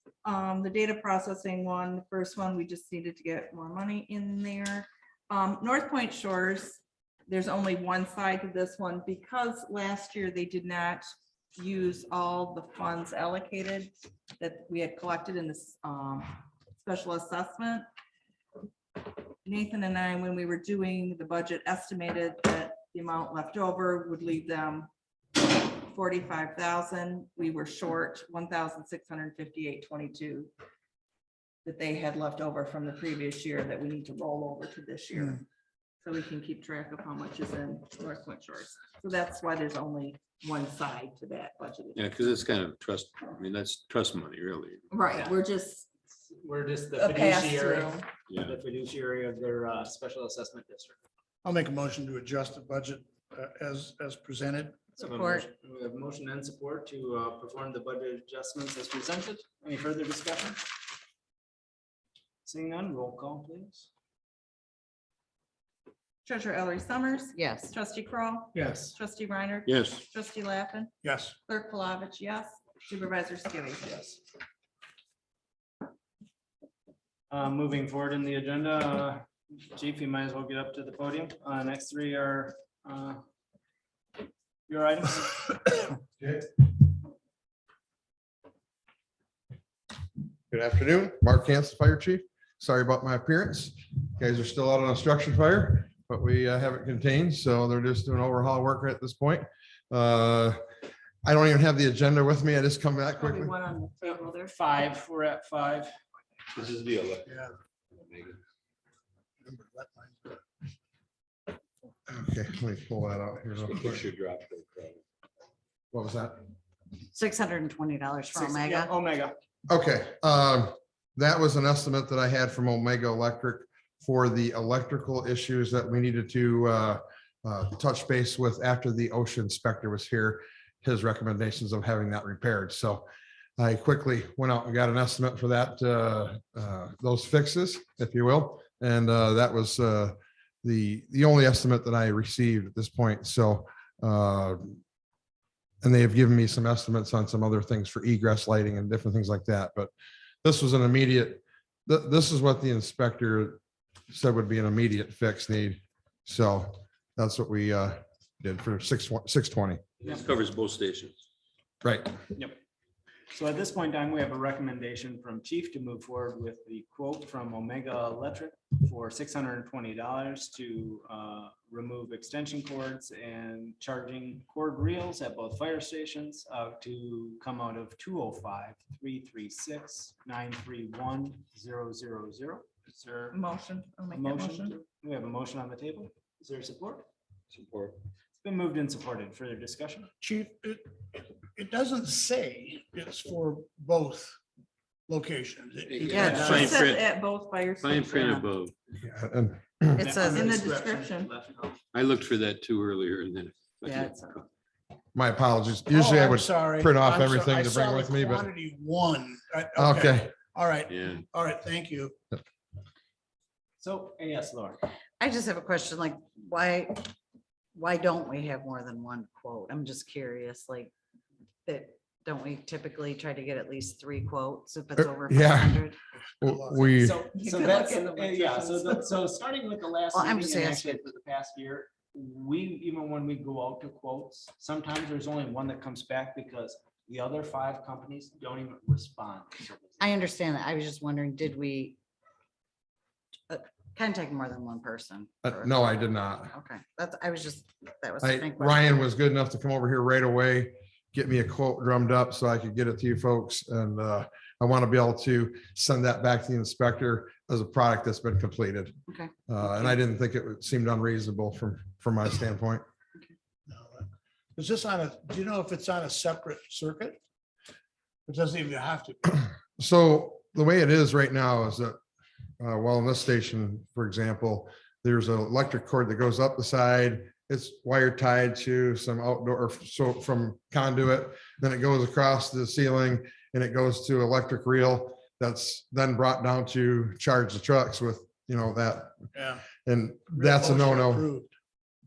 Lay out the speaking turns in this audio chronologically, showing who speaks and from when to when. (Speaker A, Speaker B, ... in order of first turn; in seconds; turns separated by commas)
Speaker A: 0.2-17.9, Speaker A: 19.0-30.5, Speaker A: 31.6-35.4, Speaker A: 36.0-42.1, Speaker B: 42.0-44.8, Speaker A: 44.9-45.9, Speaker C: 45.1-45.4, Speaker C: 46.1-51.0, Speaker A: 47.0-48.1, Speaker D: 51.4-54.9, Speaker C: 55.0-60.6, Speaker E: 55.0-55.5, Speaker C: 62.5-63.9, Speaker A: 66.2-74.2, Speaker E: 67.3-67.7, Speaker C: 68.5-69.0, Speaker B: 69.7-70.0, Speaker D: 71.0-71.4, Speaker C: 77.3-83.2, Speaker C: 84.7-85.5, Speaker F: 86.2-86.5, Speaker F: 90.5-100.6, Speaker F: 101.2-103.5, Speaker A: 103.1-104.5, Speaker C: 104.0-105.9, Speaker B: 106.5-108.4, Speaker D: 107.3-107.5, Speaker D: 109.4-110.4, Speaker F: 112.1-114.1, Speaker B: 113.6-115.0, Speaker F: 115.9-116.4, Speaker E: 117.1-118.9, Speaker C: 118.3-119.3, Speaker F: 119.7-133.1, Speaker F: 133.6-144.8, Speaker F: 145.8-149.9, Speaker F: 150.4-159.8, Speaker B: 160.0-161.2, Speaker F: 161.8-162.2, Speaker C: 163.3-183.4, Speaker A: 183.3-184.8, Speaker C: 184.1-187.1, Speaker B: 187.5-188.0, Speaker C: 188.4-190.1, Speaker D: 190.2-194.4, Speaker D: 195.1-196.9, Speaker B: 195.9-197.1, Speaker E: 196.1-196.6, Speaker C: 196.2-196.8, Speaker A: 196.6-198.4, Speaker B: 197.8-198.7, Speaker F: 199.0-200.2, Speaker C: 199.9-201.8, Speaker E: 200.0-200.6, Speaker A: 200.2-201.3, Speaker B: 201.9-204.5, Speaker E: 203.8-204.3, Speaker F: 205.1-208.5, Speaker D: 205.9-212.2, Speaker F: 209.8-210.4, Speaker B: 210.9-211.2, Speaker C: 213.8-214.8, Speaker E: 215.2-217.1, Speaker E: 217.8-220.9, Speaker E: 221.7-226.0, Speaker F: 225.0-225.9, Speaker D: 226.4-227.0, Speaker F: 226.4-227.2, Speaker C: 227.0-240.2, Speaker A: 227.3-229.1, Speaker E: 230.1-231.0, Speaker E: 240.0-242.0, Speaker E: 243.5-245.9, Speaker F: 245.4-246.5, Speaker E: 246.5-249.0, Speaker F: 248.2-262.8, Speaker E: 259.1-259.9, Speaker D: 263.7-267.2, Speaker D: 268.3-269.4, Speaker F: 269.8-272.0, Speaker F: 272.6-291.3, Speaker D: 289.3-289.6, Speaker D: 290.3-291.5